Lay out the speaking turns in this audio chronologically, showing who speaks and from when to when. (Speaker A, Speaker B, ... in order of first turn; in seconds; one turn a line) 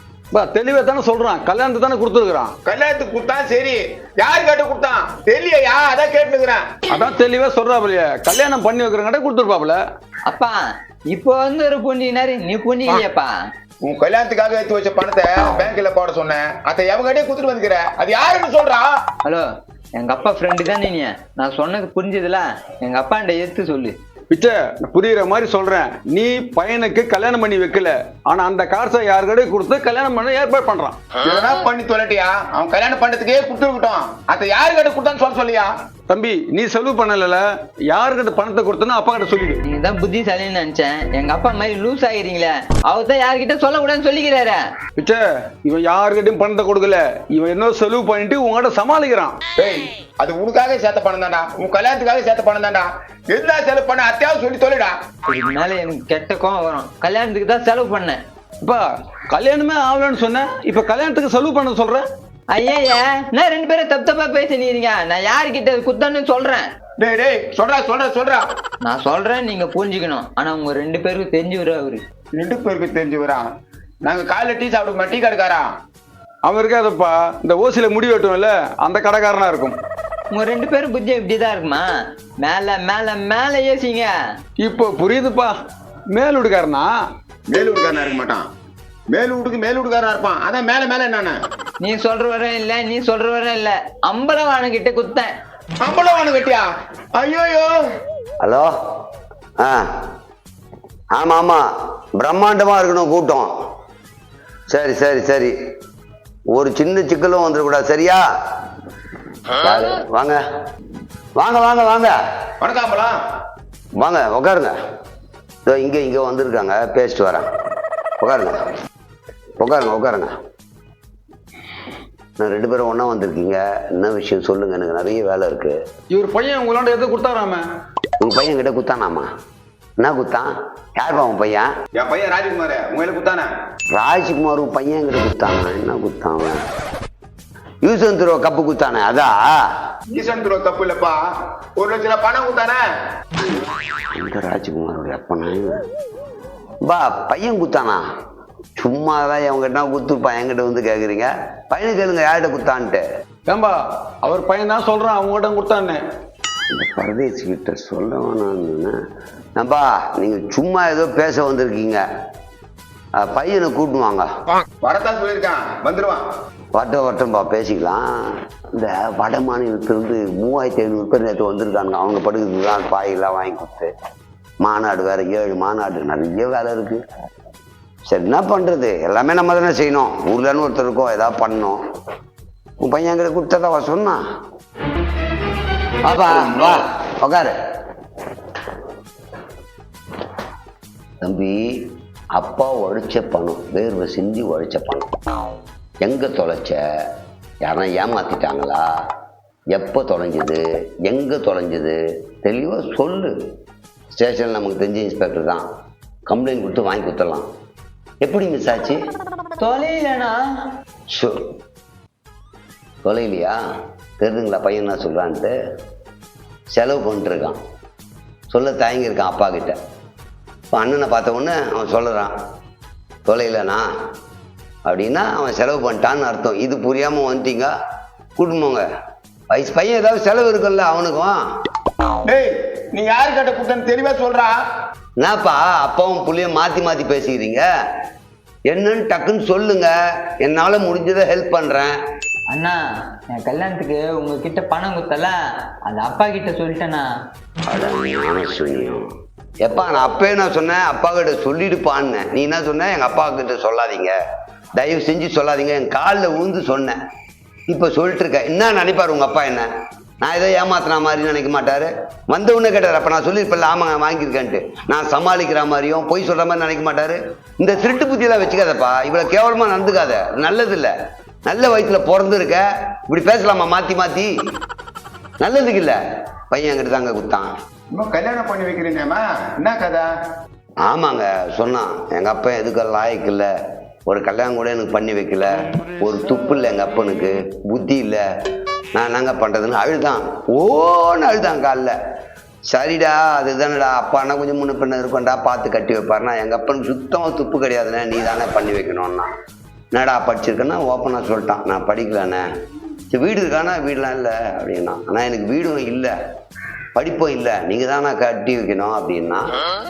Speaker A: 0.3-2.5
Speaker B: 2.6-6.6
Speaker A: 6.9-9.8
Speaker C: 10.3-10.6
Speaker C: 11.1-13.3
Speaker B: 13.8-18.9
Speaker C: 19.2-23.9
Speaker A: 24.3-31.0
Speaker B: 31.2-35.7
Speaker A: 36.1-39.6
Speaker C: 39.6-44.6
Speaker A: 45.0-49.4
Speaker B: 49.6-54.9
Speaker C: 55.3-58.2
Speaker A: 58.6-62.0
Speaker C: 62.5-66.7
Speaker B: 67.0-68.4
Speaker C: 68.8-72.0
Speaker B: 72.3-73.4
Speaker B: 74.0-75.7
Speaker A: 76.4-79.8
Speaker C: 80.3-81.9
Speaker C: 82.4-84.1
Speaker A: 84.6-85.5
Speaker A: 86.1-86.9
Speaker B: 87.5-88.4
Speaker B: 89.1-91.4
Speaker C: 91.8-95.3
Speaker B: 95.8-96.6
Speaker B: 97.2-97.7
Speaker D: 98.4-98.7
Speaker D: 99.6-99.9
Speaker D: 101.1-101.6
Speaker D: 102.2-103.5
Speaker D: 104.7-105.5
Speaker D: 106.5-108.2
Speaker D: 109.6-110.4
Speaker D: 111.3-112.2
Speaker B: 112.6-113.1
Speaker D: 114.0-114.7
Speaker D: 115.6-117.5
Speaker D: 118.2-118.5
Speaker D: 119.6-120.3
Speaker D: 122.4-125.8
Speaker A: 126.1-127.6
Speaker D: 128.2-129.3
Speaker D: 130.0-131.7
Speaker B: 131.9-133.5
Speaker D: 133.9-136.6
Speaker D: 137.8-139.6
Speaker B: 140.1-141.2
Speaker B: 141.8-142.8
Speaker D: 144.1-145.8
Speaker D: 146.8-148.0
Speaker D: 148.8-153.0
Speaker A: 153.5-156.0
Speaker D: 156.7-158.9
Speaker D: 159.6-162.0
Speaker D: 163.2-164.2
Speaker B: 164.8-166.2
Speaker D: 166.7-173.9
Speaker D: 174.6-177.0
Speaker D: 178.1-181.8
Speaker D: 182.8-184.2
Speaker D: 186.0-187.5
Speaker D: 191.2-191.8
Speaker D: 192.3-195.1
Speaker D: 196.0-196.8
Speaker D: 197.6-198.8
Speaker D: 199.7-203.3
Speaker D: 204.1-205.6
Speaker D: 206.3-207.4
Speaker D: 208.2-209.0
Speaker C: 209.6-210.4
Speaker D: 211.1-211.4
Speaker D: 213.0-213.5
Speaker D: 214.2-215.5
Speaker D: 216.7-217.6
Speaker D: 218.5-219.8
Speaker D: 220.7-222.3
Speaker D: 223.2-223.8
Speaker D: 224.8-227.7
Speaker D: 228.4-228.8
Speaker D: 229.5-231.4
Speaker B: 232.2-234.5
Speaker D: 235.2-237.6
Speaker D: 238.7-241.9
Speaker C: 242.5-247.1
Speaker D: 247.7-249.0
Speaker D: 249.6-254.1
Speaker D: 254.8-257.0
Speaker D: 257.7-259.7
Speaker D: 260.2-270.9
Speaker D: 271.4-274.3
Speaker D: 275.4-276.0
Speaker D: 276.5-277.5
Speaker B: 277.9-280.1
Speaker D: 280.8-283.5
Speaker D: 284.1-288.2
Speaker D: 288.9-291.9
Speaker D: 292.7-299.3
Speaker D: 299.9-302.4
Speaker D: 303.1-306.1
Speaker D: 306.9-309.5